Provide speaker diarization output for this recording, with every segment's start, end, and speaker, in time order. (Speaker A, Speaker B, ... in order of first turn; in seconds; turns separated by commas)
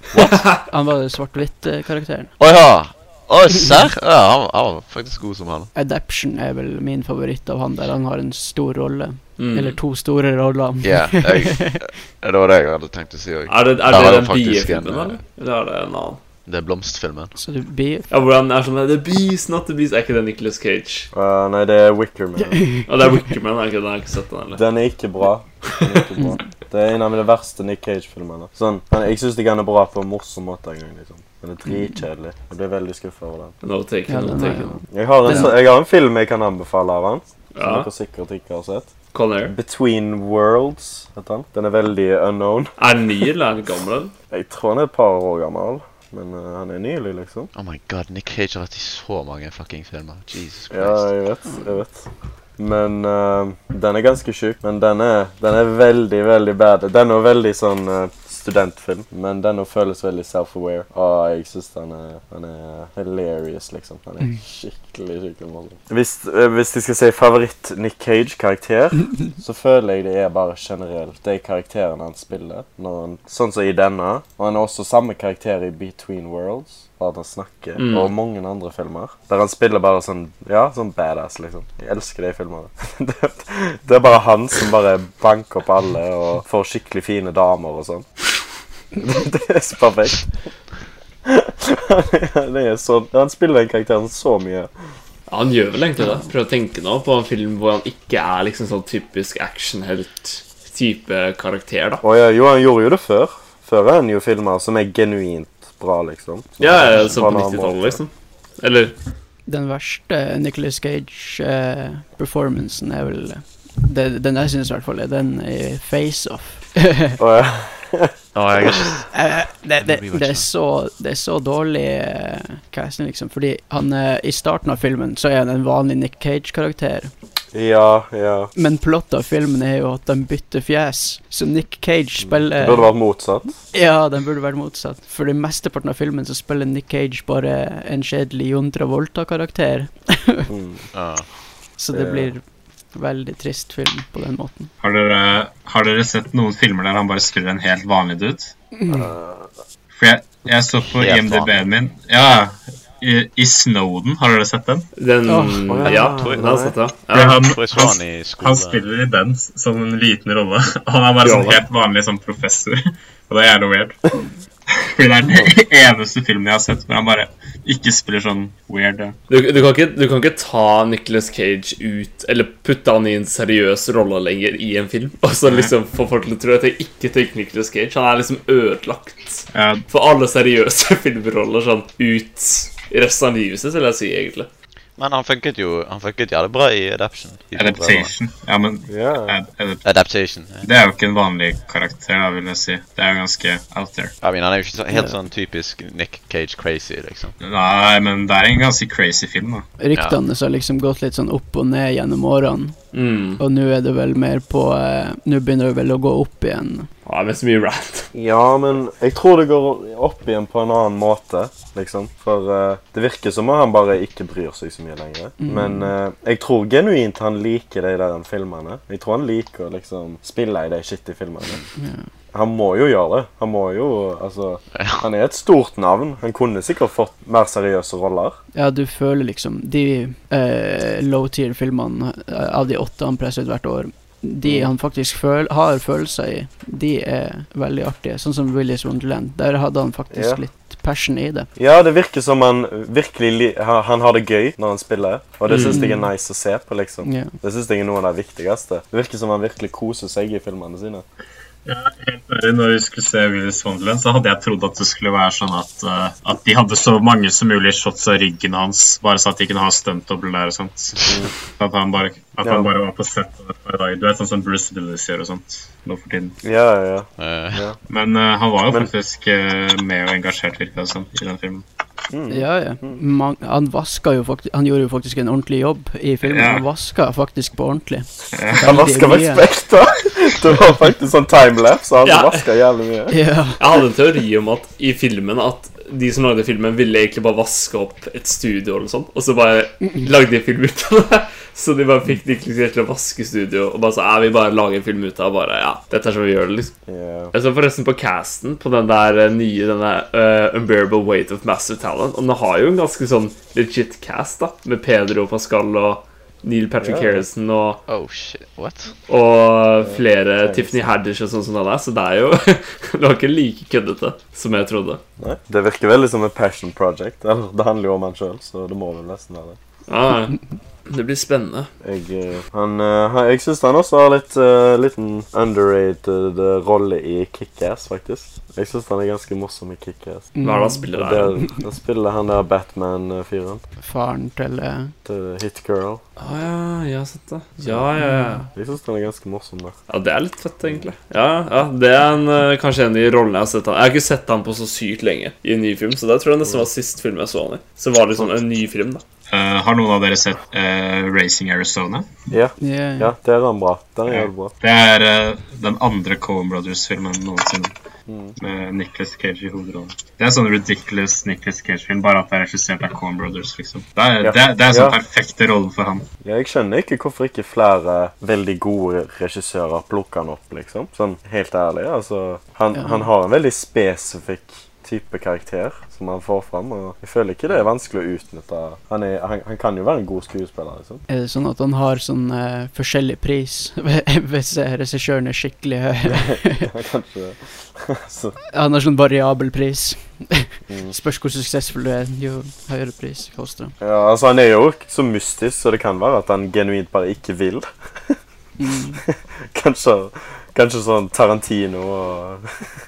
Speaker A: 0.1-0.6, Speaker B: 0.7-2.3, Speaker C: 2.4-5.7, Speaker B: 5.8-11.8, Speaker A: 9.4-9.8, Speaker C: 10.8-15.2, Speaker A: 13.5-16.2, Speaker C: 16.5-17.3, Speaker B: 17.4-18.1, Speaker A: 18.1-21.1, Speaker D: 21.1-22.6, Speaker B: 22.6-22.9, Speaker A: 22.9-24.6, Speaker D: 24.6-33.5, Speaker B: 31.7-31.9, Speaker A: 33.6-34.7, Speaker B: 34.1-35.5, Speaker D: 34.9-38.9, Speaker A: 37.5-37.9, Speaker A: 39.1-39.5, Speaker D: 39.5-42.7, Speaker A: 42.8-44.1, Speaker D: 44.3-47.5, Speaker C: 47.5-51.1, Speaker D: 50.7-52.1, Speaker D: 52.6-88.1, Speaker A: 77.8-78.1, Speaker D: 89.0-90.3, Speaker D: 91.2-94.7, Speaker A: 95.3-102.0, Speaker D: 102.0-108.0, Speaker A: 106.6-109.0, Speaker C: 106.8-107.2, Speaker B: 109.5-117.2, Speaker D: 117.2-118.2, Speaker C: 118.3-119.2, Speaker B: 119.1-127.1, Speaker C: 119.8-120.5, Speaker D: 127.5-128.5, Speaker B: 128.6-132.9, Speaker D: 132.6-133.6, Speaker B: 133.7-140.5, Speaker D: 140.5-140.8, Speaker C: 140.9-141.3, Speaker B: 141.8-142.4, Speaker D: 141.9-142.3, Speaker B: 142.9-144.7, Speaker E: 144.8-148.5, Speaker B: 148.8-149.1, Speaker D: 148.9-149.5, Speaker E: 149.9-154.9, Speaker C: 151.0-151.6, Speaker A: 155.0-157.4, Speaker B: 155.3-155.7, Speaker D: 155.7-156.8, Speaker C: 155.8-156.7, Speaker E: 157.1-164.0, Speaker C: 157.4-158.8, Speaker A: 161.2-161.6, Speaker E: 164.7-169.2, Speaker A: 169.3-184.5, Speaker E: 179.5-179.8, Speaker C: 185.0-188.1, Speaker E: 187.6-189.8, Speaker D: 188.9-189.4, Speaker C: 189.8-190.7, Speaker E: 190.6-194.2, Speaker C: 194.2-197.4, Speaker E: 197.4-199.7, Speaker B: 199.8-202.8, Speaker A: 202.9-203.4, Speaker B: 203.4-206.9, Speaker A: 207.1-208.1, Speaker D: 208.1-221.6, Speaker B: 215.4-215.9, Speaker B: 221.8-222.1, Speaker D: 222.3-228.4, Speaker B: 228.6-241.5, Speaker D: 234.4-234.7, Speaker D: 240.1-240.4, Speaker D: 241.6-251.1, Speaker A: 245.5-245.8, Speaker B: 245.6-246.1, Speaker B: 247.0-247.3, Speaker E: 251.7-266.4, Speaker D: 261.1-261.3, Speaker D: 262.4-262.7, Speaker D: 266.4-267.8, Speaker C: 267.2-267.6, Speaker E: 267.9-271.6, Speaker D: 272.1-273.0, Speaker B: 272.3-279.4, Speaker E: 276.2-276.7, Speaker E: 278.3-278.8, Speaker D: 278.6-283.2, Speaker A: 282.1-282.5, Speaker B: 283.1-283.6, Speaker A: 283.6-296.7, Speaker D: 296.9-297.3, Speaker A: 297.3-307.8, Speaker D: 306.8-307.3, Speaker C: 307.9-308.9, Speaker A: 309.1-315.0, Speaker D: 309.8-310.8, Speaker D: 315.2-319.6, Speaker A: 319.9-321.7, Speaker D: 321.8-330.3, Speaker B: 330.4-330.9, Speaker A: 330.4-331.4, Speaker D: 330.9-333.6, Speaker B: 333.8-334.9, Speaker D: 335.1-336.0, Speaker A: 336.2-338.4, Speaker D: 337.6-337.9, Speaker B: 338.0-338.4, Speaker D: 338.6-339.8, Speaker A: 339.9-349.0, Speaker E: 349.3-352.1, Speaker D: 352.3-354.5, Speaker B: 352.6-353.1, Speaker E: 354.1-357.7, Speaker D: 358.1-358.4, Speaker E: 358.4-366.1, Speaker D: 364.2-365.0, Speaker D: 366.2-381.0, Speaker B: 372.7-373.1, Speaker B: 381.1-386.7, Speaker D: 386.1-388.4, Speaker B: 388.5-393.8, Speaker D: 393.8-398.2, Speaker B: 398.6-399.0, Speaker D: 399.0-402.5